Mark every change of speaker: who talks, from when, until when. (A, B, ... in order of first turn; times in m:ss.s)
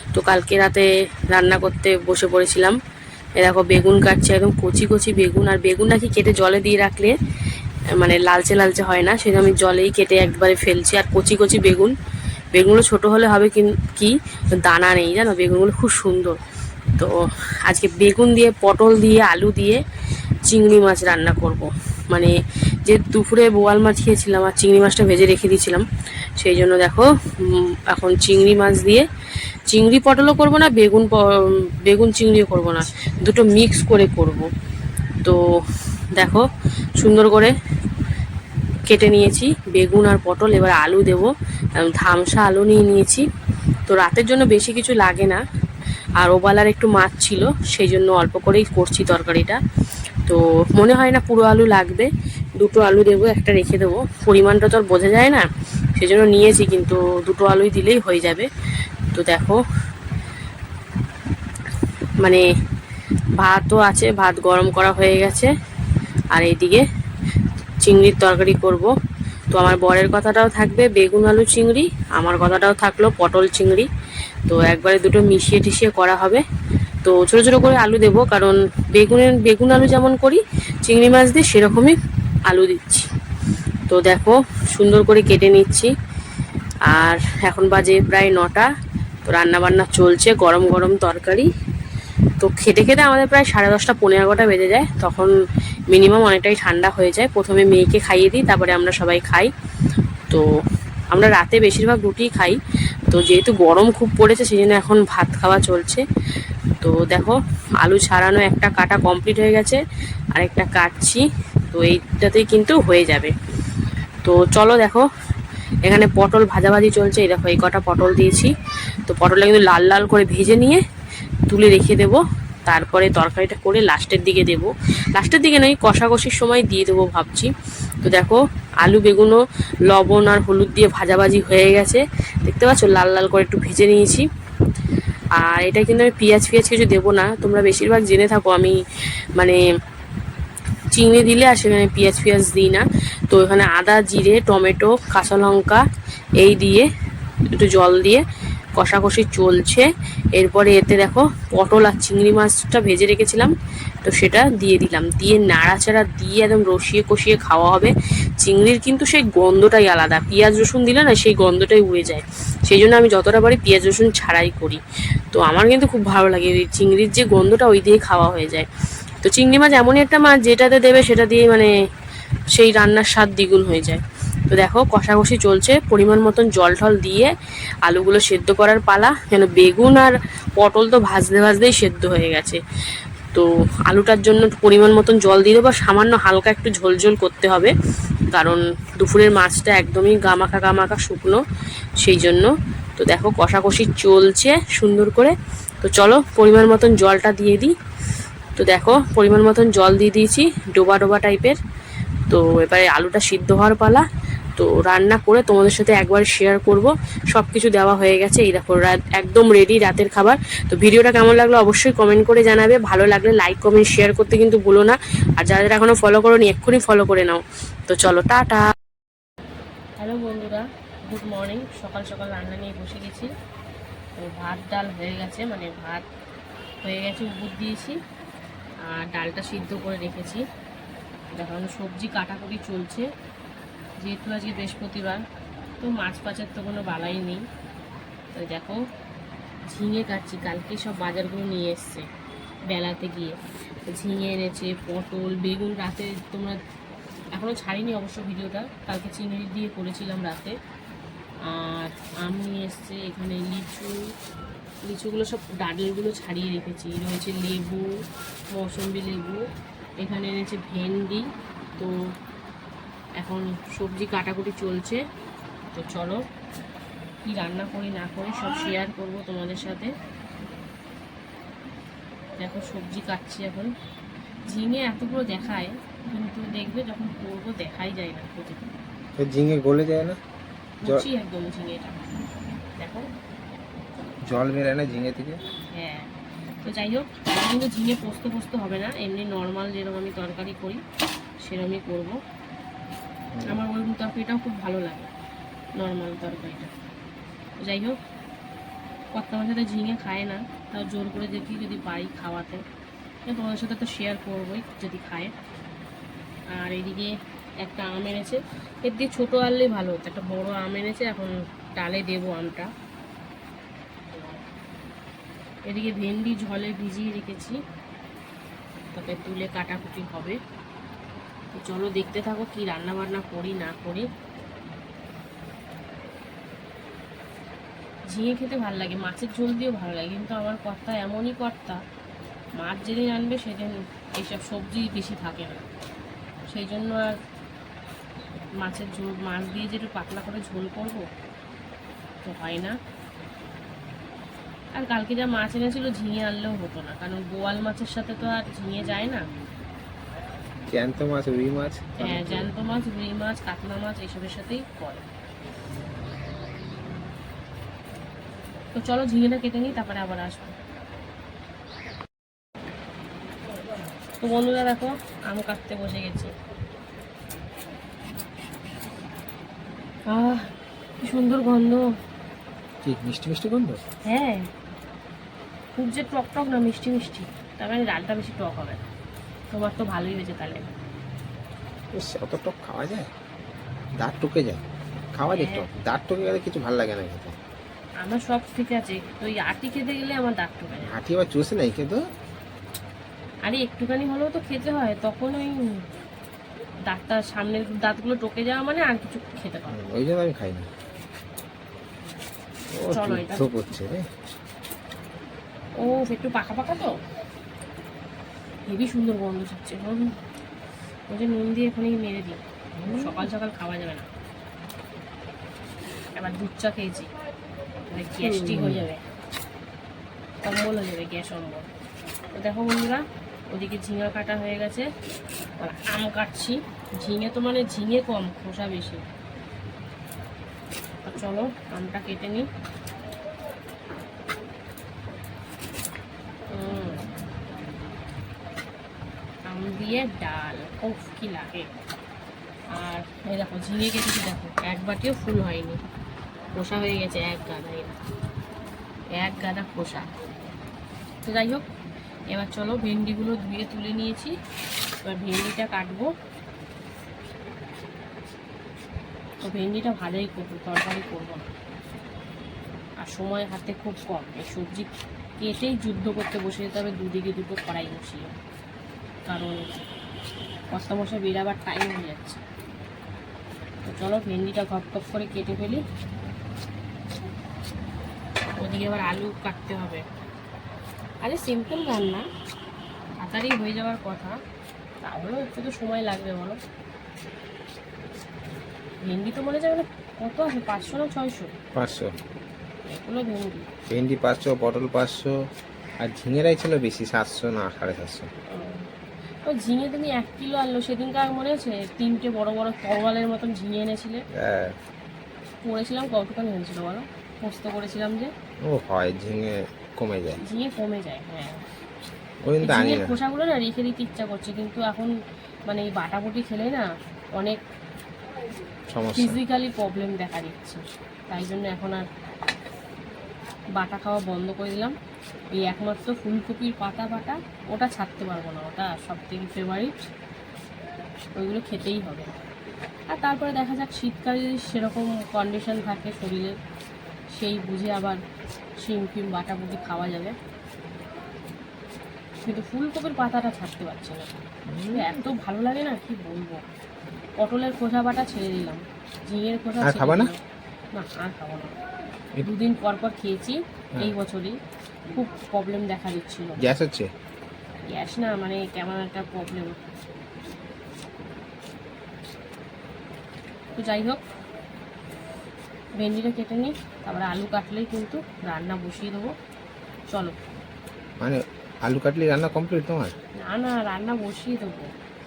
0:00.1-0:02.8 A
0:03.4-0:07.2 A
0:08.0-0:11.9 A
0:12.5-0:16.4 A
0:17.0-0:19.8 A
0:20.5-0:22.3 A
0:22.9-0:25.9 A
0:26.4-0:29.1 A
0:29.7-0:34.5 A
0:36.2-0:37.6 A
0:38.9-0:43.2 A
0:43.9-0:45.4 A
0:46.2-0:49.6 A
0:50.3-0:58.5 A
0:59.1-0:59.6 A
1:03.4-1:05.5 A
1:06.3-1:06.8 A
1:07.8-1:08.9 A
1:09.5-1:13.9 A
1:14.5-1:16.4 A
1:17.0-1:22.0 A
1:22.5-1:23.1 A
1:23.9-1:25.9 A
1:26.9-1:28.7 A
1:29.2-1:31.5 A
1:32.4-1:35.3 A
1:35.9-1:39.5 A
1:41.1-1:46.0 A
1:46.8-1:49.8 A
1:50.3-1:53.3 A
1:54.2-1:55.1 A
1:55.8-1:58.5 A
1:59.1-2:00.8 A
2:01.5-2:14.3 A
2:15.4-2:18.8 A
2:20.9-2:25.8 A
2:26.4-2:26.9 A
2:27.5-2:28.2 A
2:28.8-2:48.7 A
2:49.2-2:51.7 A
2:52.5-2:57.3 A
2:57.8-3:02.6 A
3:03.3-3:07.7 A
3:08.3-3:11.4 A
3:12.0-3:17.7 A
3:18.6-3:21.6 A
3:22.3-3:24.1 A
3:24.6-3:38.6 A
3:40.0-3:43.3 A
3:44.2-3:46.0 A
3:46.8-3:48.0 A
3:48.8-3:50.4 A
3:51.4-3:53.1 A
3:54.0-3:55.2 A
3:55.8-3:57.5 A
3:58.3-3:58.8 A
3:59.7-4:02.1 A
4:02.7-4:03.4 A
4:03.9-4:06.6 A
4:07.4-4:10.6 A
4:11.4-4:14.0 A
4:14.8-4:17.9 A
4:18.5-4:19.4 A
4:20.0-4:21.3 A
4:23.2-4:25.0 A
4:25.7-4:26.2 A
4:27.2-4:29.9 A
4:32.4-4:33.7 A
4:34.5-4:38.6 A
4:39.2-4:40.2 B
4:40.8-4:42.0 A
4:42.8-4:43.1 A
4:44.3-4:45.4 B
4:45.7-4:46.1 A
4:46.6-4:50.8 A
4:51.4-4:52.2 A
4:53.3-4:53.6 B
4:53.4-4:55.1 A
4:55.8-4:56.7 A
4:57.6-4:58.0 A
4:59.1-5:02.6 A
5:03.3-5:05.3 A
5:06.5-5:12.7 A
5:14.1-5:14.4 A
5:15.7-5:17.6 A
5:18.9-5:20.4 A
5:21.5-5:24.1 A
5:28.1-5:31.8 A
5:32.6-5:35.6 A
5:36.5-5:37.2 A
5:38.6-5:41.1 A
5:42.2-5:42.8 A
5:44.8-5:49.2 A
5:50.7-5:52.5 B
5:52.0-5:55.1 A
5:58.7-6:00.6 A
6:04.2-6:06.3 A
6:10.1-6:11.9 A
6:12.8-6:13.8 B
6:14.0-6:14.5 A
6:15.8-6:18.8 A
6:19.5-6:20.7 A
6:22.0-6:23.1 B
6:24.0-6:24.6 B
6:25.2-6:27.4 B
6:25.3-6:25.7 A
6:28.0-6:30.9 A
6:30.8-6:32.0 B
6:33.4-6:35.8 A
6:36.9-6:39.8 A
6:39.7-6:40.7 B
6:42.7-6:44.1 B
6:42.9-6:43.5 A
6:45.8-6:47.0 A
6:48.7-6:50.0 A
6:51.1-6:54.1 A
6:52.8-6:53.3 B
6:56.1-6:57.1 A
6:57.9-6:59.0 A
6:58.2-6:58.9 B
7:00.4-7:01.7 A
7:02.3-7:04.9 A
7:05.6-7:09.0 A
7:11.0-7:12.5 A
7:16.5-7:17.1 A
7:19.5-7:21.7 A
7:22.7-7:25.8 A
7:26.6-7:28.0 A
7:29.1-7:30.1 A
7:31.2-7:31.6 A
7:32.3-7:34.4 A
7:35.0-7:36.1 A
7:39.4-7:41.5 A
7:43.0-7:48.3 A
7:49.3-7:49.9 A
7:50.7-7:52.4 A
7:53.8-7:55.8 A
7:58.6-8:00.1 A
8:01.2-8:02.3 A
8:03.2-8:04.4 A
8:05.0-8:06.6 A
8:09.0-8:11.5 A
8:11.8-8:12.2 B
8:12.8-8:13.7 A
8:13.9-8:15.4 B
8:16.0-8:18.3 B
8:18.5-8:18.9 A
8:19.4-8:24.2 A
8:24.4-8:24.8 B
8:25.6-8:28.3 A
8:28.7-8:30.4 B
8:30.4-8:31.6 A
8:32.4-8:33.2 B
8:32.6-8:35.1 A
8:35.7-8:36.9 A
8:38.9-8:39.4 B
8:39.1-8:42.0 A
8:43.8-8:44.9 A
8:45.6-8:49.9 A
8:51.4-8:52.3 A
8:53.1-8:56.6 A
8:57.3-8:58.2 A
8:58.8-9:00.4 A
9:02.4-9:04.3 A
9:04.7-9:05.1 B
9:04.9-9:06.6 A
9:07.4-9:10.4 A
9:09.8-9:10.3 B
9:11.0-9:11.7 A
9:12.4-9:14.6 A
9:15.1-9:16.6 A
9:16.6-9:17.1 B
9:17.9-9:19.8 A
9:23.8-9:24.2 A
9:26.0-9:29.3 A
9:30.1-9:30.4 A
9:31.2-9:33.2 B
9:33.4-9:34.9 A